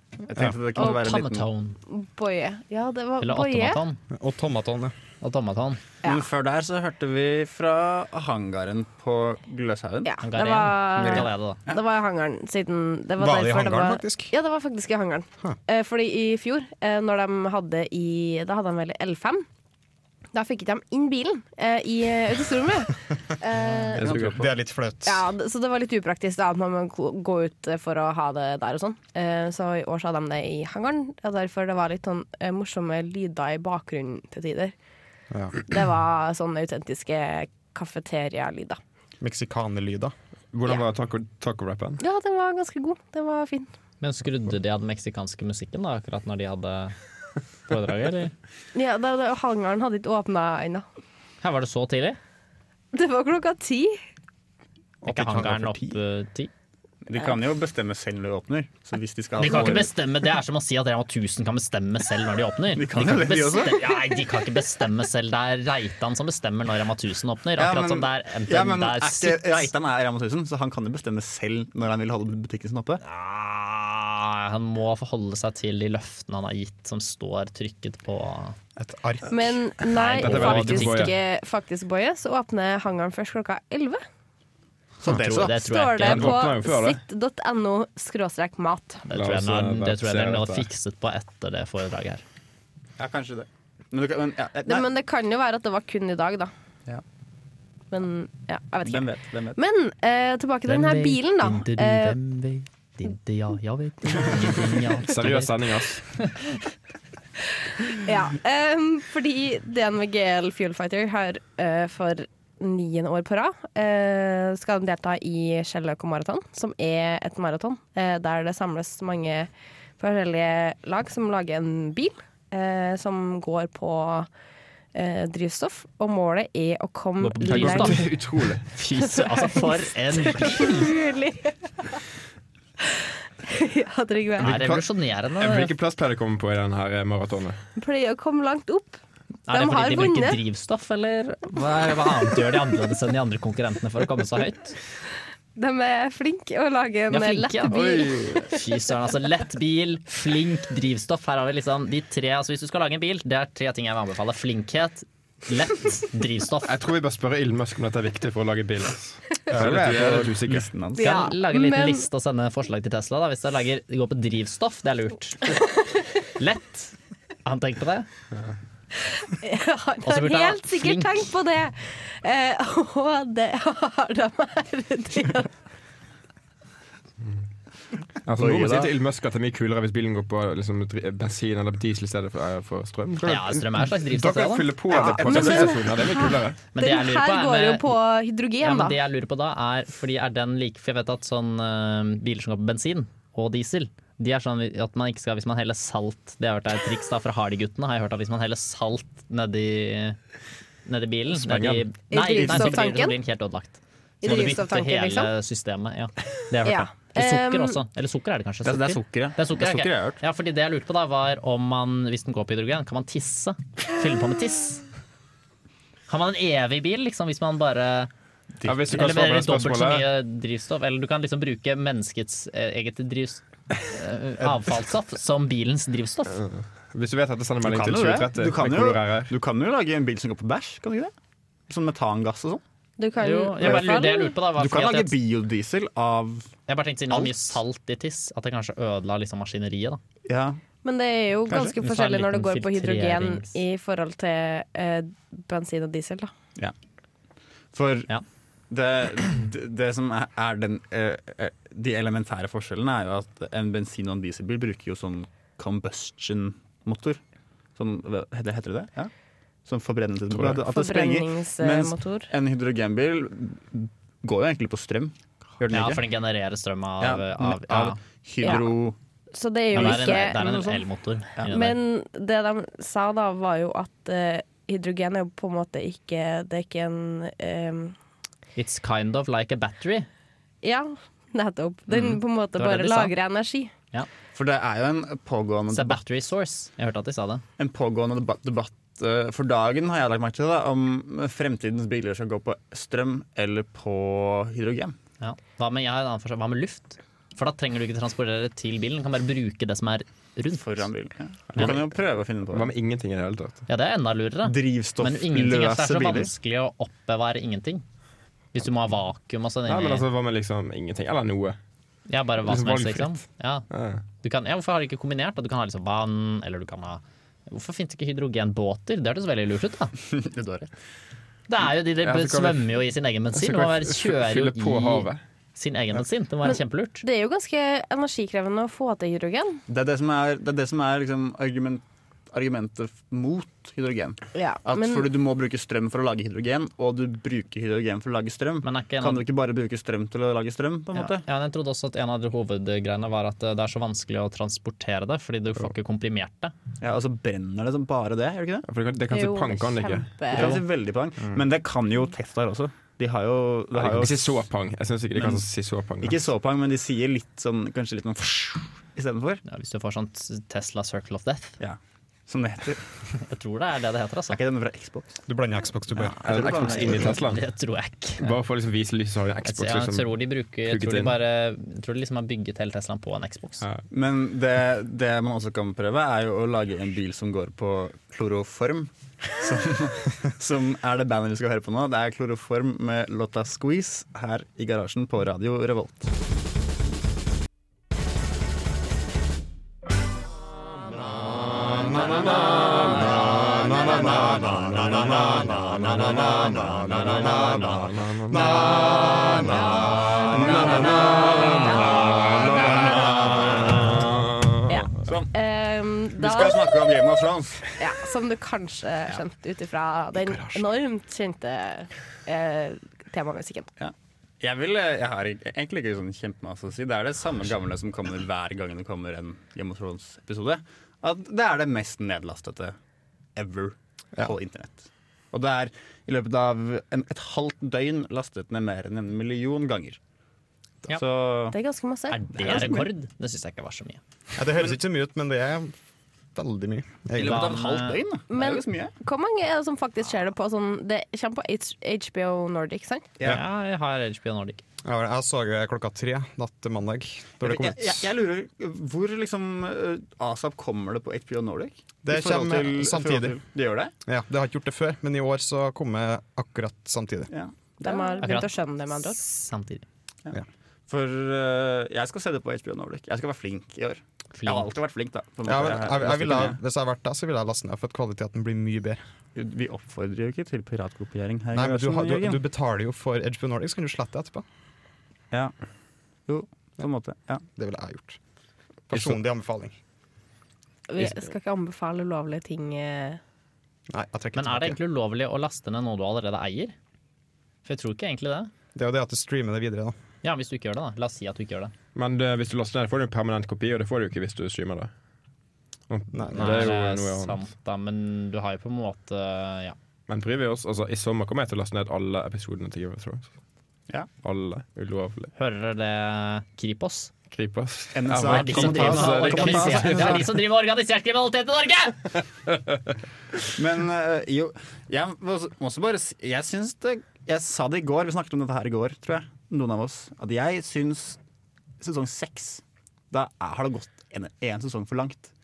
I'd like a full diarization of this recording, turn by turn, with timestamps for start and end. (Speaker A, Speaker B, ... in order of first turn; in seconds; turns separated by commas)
Speaker A: 0.3-1.5, Speaker B: 0.8-1.8, Speaker C: 1.9-3.8, Speaker B: 3.2-4.0, Speaker D: 4.1-4.9, Speaker B: 5.2-5.8, Speaker A: 6.0-10.1, Speaker C: 10.1-19.4, Speaker B: 10.2-11.6, Speaker A: 11.0-11.2, Speaker D: 13.2-14.3, Speaker C: 20.3-24.2, Speaker D: 23.9-25.3, Speaker E: 24.0-24.5, Speaker C: 25.0-34.7, Speaker D: 35.3-35.6, Speaker C: 35.6-38.8, Speaker D: 39.2-40.1, Speaker E: 40.5-42.0, Speaker C: 42.0-43.7, Speaker B: 44.0-47.0, Speaker B: 47.7-48.3, Speaker C: 48.7-50.9, Speaker B: 51.4-52.2, Speaker C: 52.9-54.0, Speaker B: 55.0-56.5, Speaker A: 57.1-59.9, Speaker B: 59.4-69.7, Speaker A: 62.8-63.9, Speaker A: 67.6-73.0, Speaker B: 73.0-78.6, Speaker D: 78.8-79.6, Speaker C: 79.3-84.0, Speaker B: 80.0-81.1, Speaker E: 80.0-81.1, Speaker A: 85.0-85.5, Speaker B: 85.1-86.4, Speaker C: 85.4-89.0, Speaker E: 86.0-87.0, Speaker B: 89.1-92.2, Speaker E: 89.1-90.7, Speaker A: 93.0-94.9, Speaker C: 94.7-96.5, Speaker C: 97.9-102.2, Speaker A: 98.8-99.6, Speaker B: 100.7-105.6, Speaker E: 105.0-106.2, Speaker B: 106.1-106.5, Speaker C: 107.9-124.3, Speaker C: 125.0-128.1, Speaker B: 127.2-128.1, Speaker E: 127.5-128.7, Speaker B: 128.7-130.9, Speaker C: 129.1-131.9, Speaker C: 133.0-134.6, Speaker B: 134.4-135.7, Speaker E: 134.4-134.8, Speaker E: 135.4-137.6, Speaker C: 137.8-140.4, Speaker B: 139.5-144.8, Speaker C: 145.6-148.6, Speaker B: 147.1-156.7, Speaker E: 147.7-148.3, Speaker E: 156.7-160.7, Speaker A: 159.5-161.2, Speaker C: 161.0-162.1, Speaker B: 161.0-165.6, Speaker B: 166.4-168.1, Speaker C: 169.3-175.5, Speaker B: 170.1-171.3, Speaker E: 178.2-186.6, Speaker A: 178.4-178.9, Speaker B: 183.2-184.7, Speaker C: 184.9-189.0, Speaker B: 186.7-187.9, Speaker B: 188.6-200.2, Speaker B: 200.9-214.8, Speaker A: 201.4-201.8, Speaker C: 202.1-203.2, Speaker A: 202.3-202.9, Speaker C: 204.2-205.3, Speaker C: 206.6-207.8, Speaker A: 208.7-210.2, Speaker B: 216.1-218.1, Speaker E: 218.6-220.1, Speaker B: 218.9-226.4, Speaker E: 226.3-229.3, Speaker A: 227.6-231.1, Speaker A: 231.7-232.6, Speaker C: 233.0-234.3, Speaker B: 233.2-235.1, Speaker A: 233.6-236.5, Speaker B: 236.7-240.0, Speaker A: 237.1-237.6, Speaker A: 240.3-240.6, Speaker C: 240.8-246.3, Speaker A: 241.5-241.8, Speaker B: 241.8-243.6, Speaker A: 247.7-248.1, Speaker A: 248.7-257.2, Speaker A: 257.8-259.1, Speaker A: 259.7-266.0, Speaker C: 260.5-262.3, Speaker B: 265.7-268.0, Speaker A: 267.0-269.0, Speaker C: 268.4-268.7, Speaker C: 269.3-270.8, Speaker A: 269.7-270.6, Speaker B: 269.7-271.8, Speaker C: 271.5-277.9, Speaker B: 278.6-280.1, Speaker C: 280.6-283.7, Speaker B: 281.9-283.1, Speaker A: 284.3-286.0, Speaker B: 285.7-287.4, Speaker A: 287.6-295.0, Speaker B: 295.2-300.9, Speaker A: 300.6-302.7, Speaker E: 301.6-301.8, Speaker E: 302.5-303.6, Speaker B: 303.7-307.8, Speaker A: 304.4-306.3, Speaker B: 308.5-310.1, Speaker E: 309.7-311.6, Speaker B: 312.1-313.7, Speaker E: 312.4-314.0, Speaker B: 314.2-319.9, Speaker A: 320.1-320.7, Speaker B: 321.5-327.0, Speaker E: 322.0-322.8, Speaker E: 323.4-325.2, Speaker C: 326.4-329.6, Speaker A: 329.7-341.2, Speaker C: 334.3-335.1, Speaker B: 338.6-339.3, Speaker B: 340.9-346.5, Speaker A: 346.8-348.7, Speaker E: 348.7-350.6, Speaker C: 349.1-350.6, Speaker A: 350.3-354.5, Speaker E: 353.7-356.2, Speaker A: 355.2-355.4, Speaker A: 356.0-359.4, Speaker B: 359.4-361.6, Speaker A: 361.6-362.8, Speaker B: 363.2-364.4, Speaker A: 364.3-365.2, Speaker D: 365.3-366.2, Speaker B: 366.0-368.3, Speaker A: 366.2-367.2, Speaker E: 366.2-367.5, Speaker E: 368.2-371.2, Speaker B: 369.4-373.6, Speaker A: 373.9-386.1, Speaker E: 391.8-393.3, Speaker D: 393.5-394.1, Speaker E: 394.3-395.0, Speaker D: 394.8-395.4, Speaker E: 395.8-398.6, Speaker D: 397.0-397.6, Speaker D: 398.3-399.5, Speaker C: 399.2-403.9, Speaker E: 400.3-404.9, Speaker C: 404.7-406.9, Speaker A: 405.1-405.3, Speaker A: 406.2-407.7, Speaker C: 407.8-413.7, Speaker A: 413.8-422.8, Speaker A: 423.4-430.0, Speaker A: 430.9-431.6, Speaker C: 431.5-432.7, Speaker B: 432.1-434.0, Speaker A: 432.3-432.9, Speaker D: 434.4-435.7, Speaker D: 436.4-437.6, Speaker A: 437.1-438.9, Speaker B: 437.2-438.0, Speaker C: 438.3-443.1, Speaker B: 443.2-444.6, Speaker D: 444.8-448.1, Speaker A: 447.4-453.9, Speaker D: 452.1-453.4, Speaker D: 454.1-457.3, Speaker A: 457.3-458.3, Speaker C: 457.8-459.2, Speaker B: 458.2-459.9, Speaker A: 460.3-466.6, Speaker B: 464.4-464.7, Speaker D: 465.4-469.0, Speaker A: 469.4-472.4, Speaker D: 471.5-474.4, Speaker A: 476.3-477.4, Speaker D: 477.6-478.2, Speaker D: 478.9-479.7, Speaker C: 480.9-483.2, Speaker D: 483.9-484.8, Speaker B: 484.4-486.8, Speaker B: 487.6-488.5, Speaker D: 488.8-489.9, Speaker B: 490.2-491.7, Speaker E: 491.9-494.9, Speaker E: 495.9-497.4, Speaker D: 496.1-496.6, Speaker B: 496.3-499.8, Speaker E: 500.1-503.3, Speaker E: 504.2-505.3, Speaker B: 505.4-507.1, Speaker E: 507.3-510.3, Speaker A: 507.9-510.3, Speaker B: 508.2-512.1, Speaker A: 513.6-521.2, Speaker A: 521.8-525.3